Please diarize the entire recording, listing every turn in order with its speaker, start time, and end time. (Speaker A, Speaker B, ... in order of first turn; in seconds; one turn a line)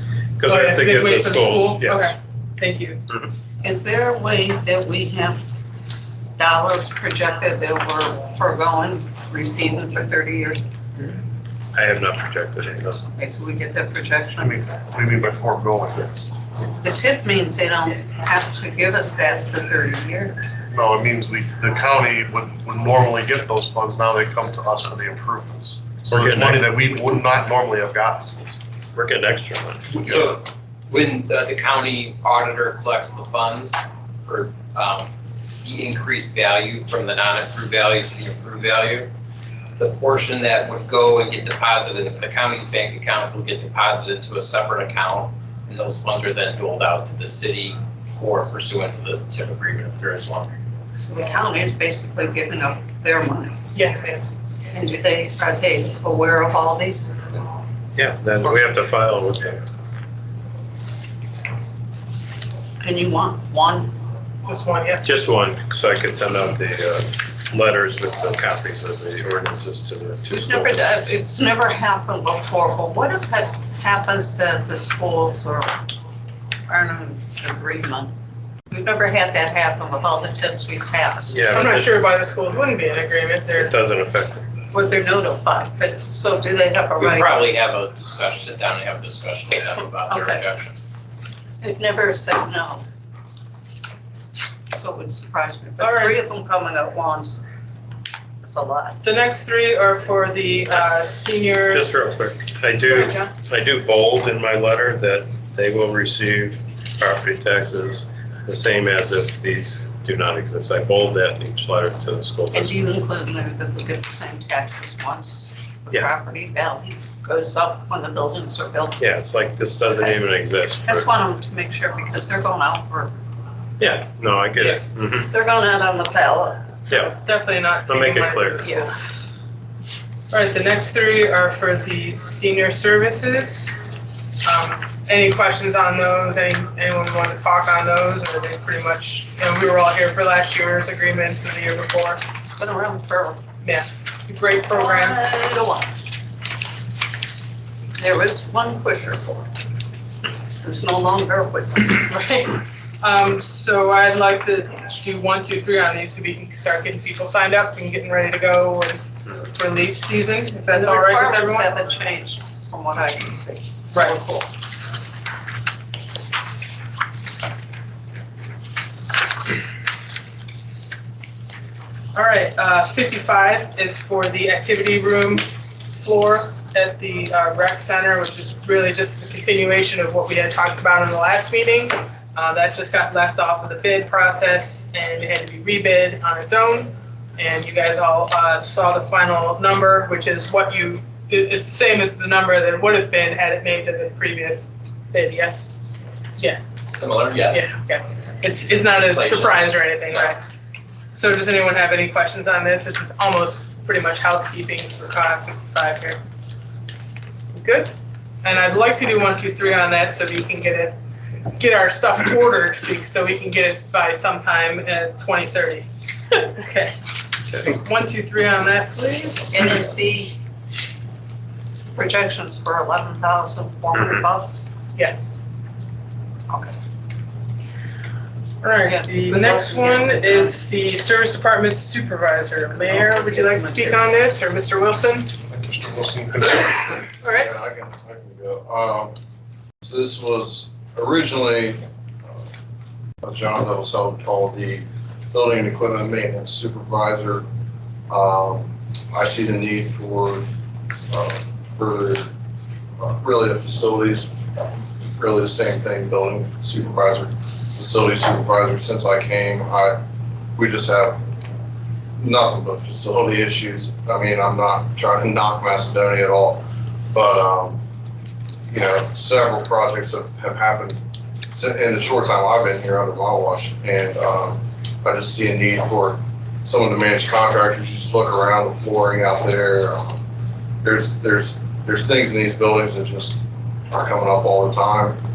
Speaker A: 0.4-2.1
Speaker B: 0.4-3.0
Speaker C: 3.6-5.4
Speaker C: 6.3-11.2
Speaker A: 11.7-13.0
Speaker C: 13.1-14.6
Speaker D: 14.4-16.2
Speaker C: 16.7-20.6
Speaker D: 20.7-28.6
Speaker A: 26.1-26.7
Speaker A: 28.9-29.9
Speaker D: 29.9-30.4
Speaker E: 30.1-35.1
Speaker E: 35.6-39.1
Speaker E: 39.8-50.5
Speaker C: 50.9-53.5
Speaker B: 53.7-54.2
Speaker C: 54.7-57.1
Speaker A: 58.0-59.6
Speaker C: 62.8-63.9
Speaker B: 64.4-65.1
Speaker A: 65.0-70.8
Speaker C: 70.3-75.8
Speaker C: 76.7-78.1
Speaker C: 78.7-81.4
Speaker A: 81.3-81.9
Speaker B: 81.5-83.7
Speaker A: 83.6-84.5
Speaker C: 84.7-87.4
Speaker E: 87.0-90.7
Speaker C: 90.1-90.4
Speaker C: 91.6-92.8
Speaker C: 94.7-97.4
Speaker B: 95.8-96.2
Speaker C: 98.4-99.0
Speaker B: 99.0-101.9
Speaker A: 101.7-112.7
Speaker C: 112.5-119.0
Speaker A: 119.0-121.1
Speaker C: 120.8-123.1
Speaker A: 123.8-125.3
Speaker C: 125.3-126.7
Speaker A: 126.9-127.2
Speaker B: 126.9-128.9
Speaker A: 127.8-128.6
Speaker C: 128.6-128.9
Speaker B: 130.3-133.7
Speaker B: 134.4-142.2
Speaker C: 142.4-143.4
Speaker B: 143.6-145.2
Speaker C: 144.7-146.1
Speaker C: 148.0-149.5
Speaker C: 150.6-152.4
Speaker B: 152.2-161.7
Speaker C: 160.7-164.5
Speaker B: 172.1-195.8
Speaker B: 196.4-196.6
Speaker E: 196.9-197.7
Speaker B: 197.4-200.4
Speaker E: 198.9-200.3
Speaker B: 201.1-206.2
Speaker B: 207.5-207.9
Speaker B: 208.4-216.9
Speaker B: 217.5-219.7
Speaker C: 219.5-220.4
Speaker C: 221.9-224.7
Speaker B: 224.9-225.3
Speaker C: 226.5-226.7
Speaker B: 228.6-235.3
Speaker C: 228.8-230.6
Speaker C: 232.9-234.1
Speaker D: 235.5-237.1
Speaker B: 237.2-237.5
Speaker F: 237.3-239.1
Speaker F: 239.8-241.8
Speaker F: 243.2-247.4
Speaker F: 248.1-250.4
Speaker F: 251.1-252.3
Speaker F: 253.0-254.3
Speaker F: 255.2-260.0
Speaker F: 260.6-261.2
Speaker F: 262.2-267.8
Speaker F: 268.7-280.2
Speaker F: 280.8-285.2